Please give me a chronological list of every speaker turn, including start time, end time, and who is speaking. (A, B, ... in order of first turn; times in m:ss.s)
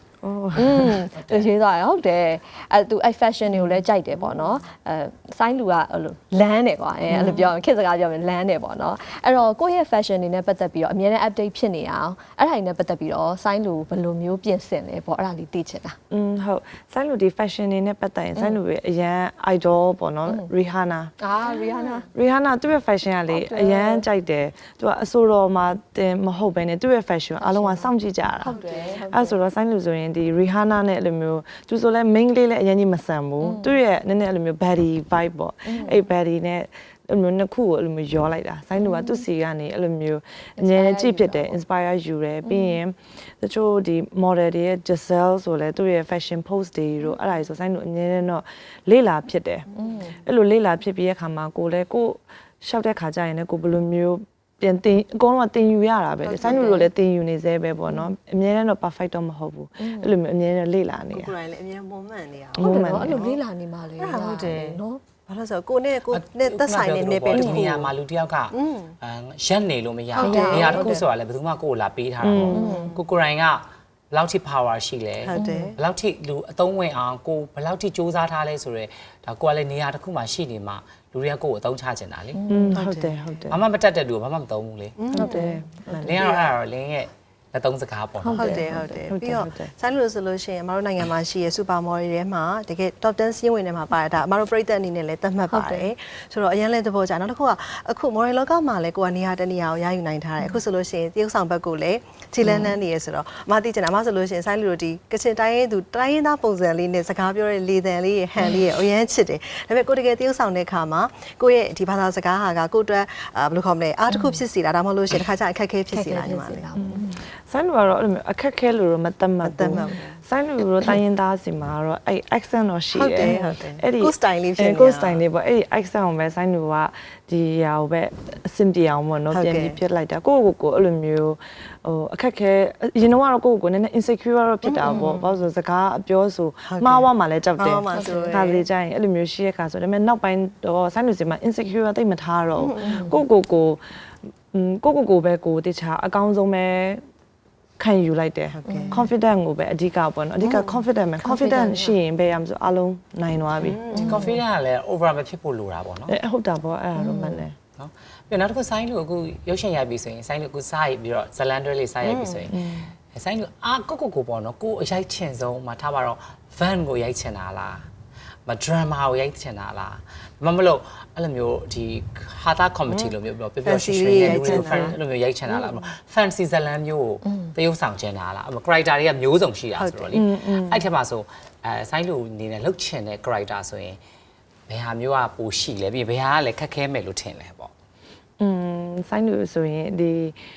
0:00.2-0:01.1 A
0:00.6-0:16.0 B
0:01.2-0:01.5 C
0:03.5-0:03.8 A
0:07.1-0:07.5 A
0:16.1-0:21.1 A
0:21.2-0:22.1 B
0:21.4-0:22.1 D
0:22.1-0:28.6 A
0:23.3-0:24.0 B
0:27.4-0:29.4 B
0:28.4-0:29.0 D
0:29.1-0:49.7 A
0:33.4-0:33.8 B
0:35.6-0:36.0 B
0:38.8-0:39.2 B
0:40.6-0:41.6 B
0:42.4-0:42.8 B
0:49.7-0:50.1 D
0:49.8-0:50.2 B
0:50.2-1:01.4 A
0:56.2-0:56.8 D
0:56.4-0:56.9 B
0:59.8-1:00.1 B
1:01.1-1:03.4 D
1:02.6-1:03.2 A
1:02.6-1:05.0 B
1:04.0-1:07.9 D
1:06.1-1:22.4 C
1:07.3-1:07.6 B
1:08.5-1:08.9 D
1:10.1-1:11.0 D
1:10.2-1:10.9 B
1:10.3-1:11.0 A
1:12.2-1:12.8 A
1:12.5-1:13.0 B
1:12.5-1:13.0 D
1:15.2-1:15.8 D
1:15.3-1:15.7 B
1:22.3-1:22.8 B
1:22.5-1:23.6 A
1:22.7-1:23.4 D
1:23.5-1:25.1 C
1:25.0-1:26.5 D
1:25.1-1:26.3 A
1:25.1-1:26.0 B
1:26.0-1:28.6 C
1:28.2-1:29.0 B
1:28.4-1:56.6 D
1:29.1-1:29.7 A
1:35.5-1:35.9 B
1:42.4-1:42.8 B
1:54.1-1:54.4 B
1:55.9-1:57.2 B
1:56.8-2:23.8 A
1:59.4-2:00.2 D
2:02.9-2:05.2 D
2:03.2-2:03.5 B
2:09.3-2:09.8 D
2:14.6-2:15.3 D
2:14.9-2:15.1 B
2:16.7-2:18.6 D
2:17.9-2:18.5 B
2:22.6-2:23.0 D
2:22.7-2:23.2 B
2:24.5-2:27.0 A
2:27.8-2:34.0 A
2:28.5-2:29.0 D
2:28.7-2:29.0 B
2:31.2-2:32.0 B
2:33.6-2:34.4 D
2:33.9-2:34.4 B
2:34.0-2:36.2 C
2:36.1-2:37.6 A
2:37.0-2:37.4 B
2:37.8-2:42.6 C
2:42.0-2:42.5 D
2:42.5-2:42.9 A
2:43.1-2:47.9 C
2:48.5-3:04.0 C
2:52.9-2:53.1 D
2:53.6-2:55.0 D
2:54.1-2:55.0 A
2:57.2-2:57.5 B
2:59.8-3:00.2 D
3:00.1-3:00.9 A
3:04.7-3:07.7 C
3:08.4-3:10.4 A